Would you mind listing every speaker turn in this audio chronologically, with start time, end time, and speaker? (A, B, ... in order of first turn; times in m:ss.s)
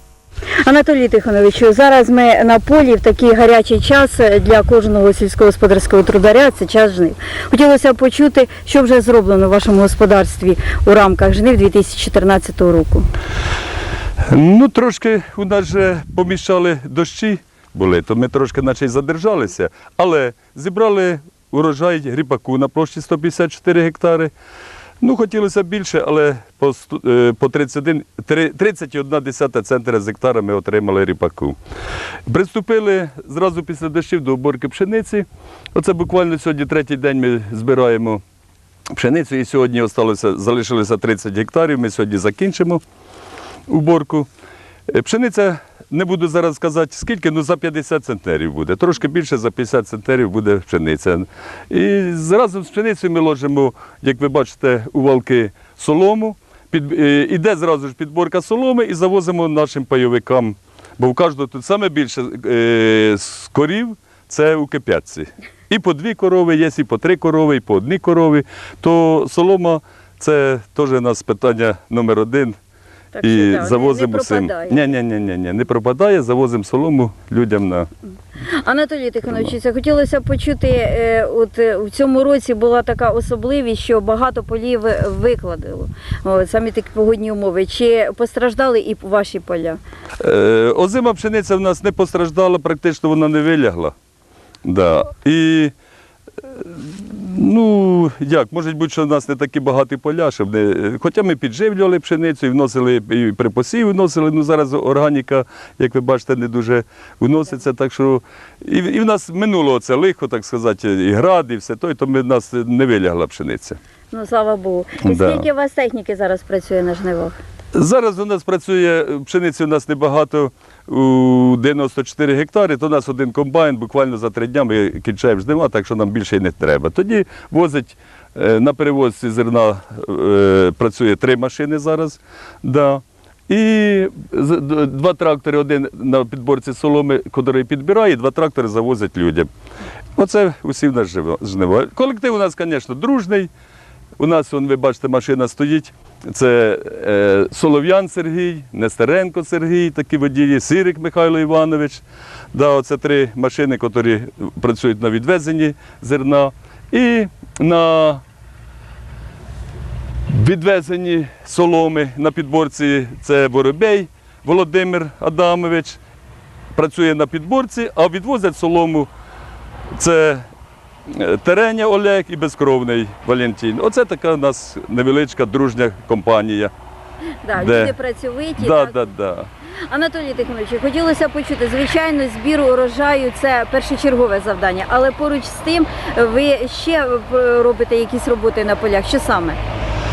0:00.6-0:13.0 A
0:14.3-0:24.3 B
0:25.0-0:31.6 B
0:32.3-0:38.2 B
0:38.9-0:42.8 B
0:43.7-0:44.3 B
0:44.9-1:12.6 B
1:13.1-1:14.8 A
1:13.2-1:17.9 B
1:18.4-1:29.8 A
1:19.2-1:19.5 B
1:30.2-1:33.9 B
1:34.6-1:35.7 B
1:36.4-1:53.8 B
1:54.1-1:57.4 A
1:55.0-1:55.5 B
1:57.7-2:19.5 B
2:20.2-2:23.5 B
2:24.2-2:38.2 B
2:40.3-2:46.0 B
2:46.7-2:49.1 B
2:49.9-2:50.4 B
2:51.1-2:56.7 B
2:57.4-2:59.0 A
2:57.5-2:58.0 B
2:58.6-2:59.5 B
2:59.9-3:09.6 A